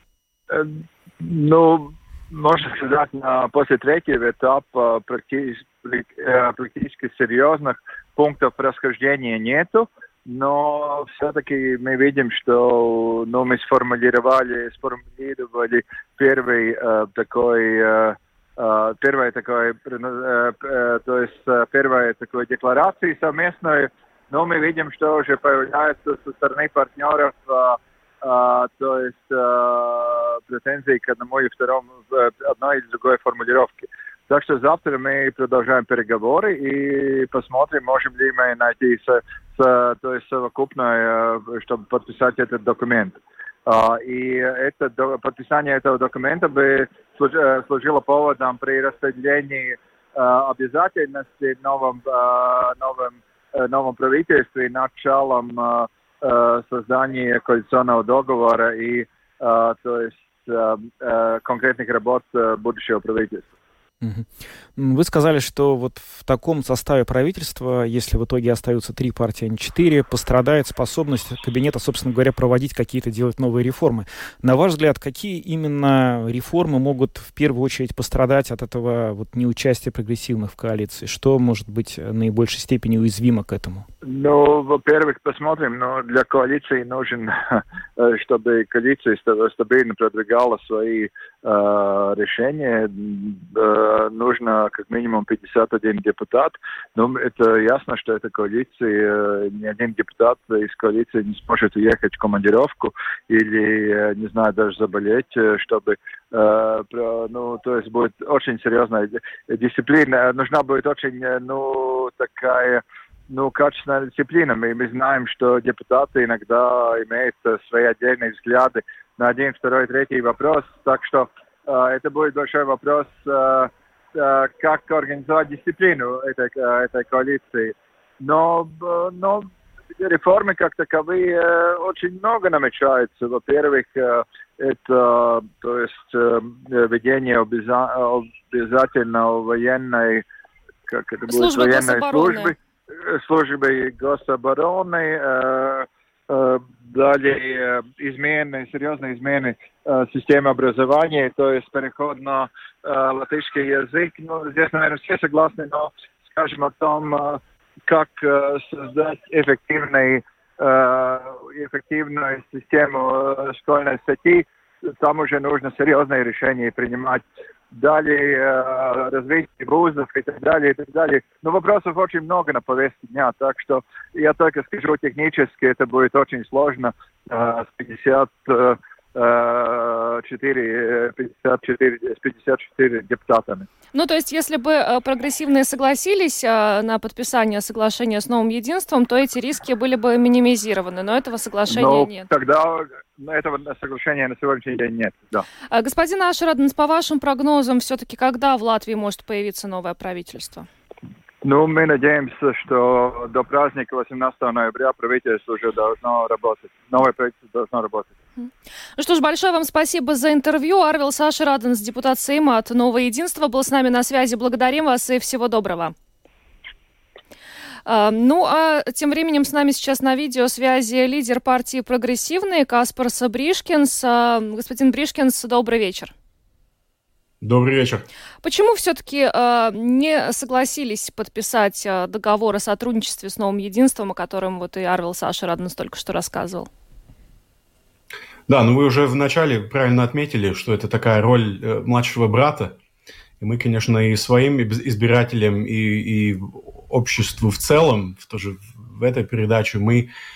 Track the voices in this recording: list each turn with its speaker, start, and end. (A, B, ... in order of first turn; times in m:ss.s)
0:00.5-1:03.5 A
1:04.0-1:23.9 B
1:24.0-2:20.2 A
2:20.9-3:03.7 A
2:21.3-2:22.5 C
3:03.9-3:12.3 C
3:11.7-3:15.4 A
3:15.7-3:20.7 C
3:21.4-3:28.1 A
3:29.0-3:35.9 C
3:37.9-3:46.1 C
3:47.4-3:48.0 D
3:48.4-3:56.7 C
3:58.5-4:02.8 D
4:03.4-4:10.1 D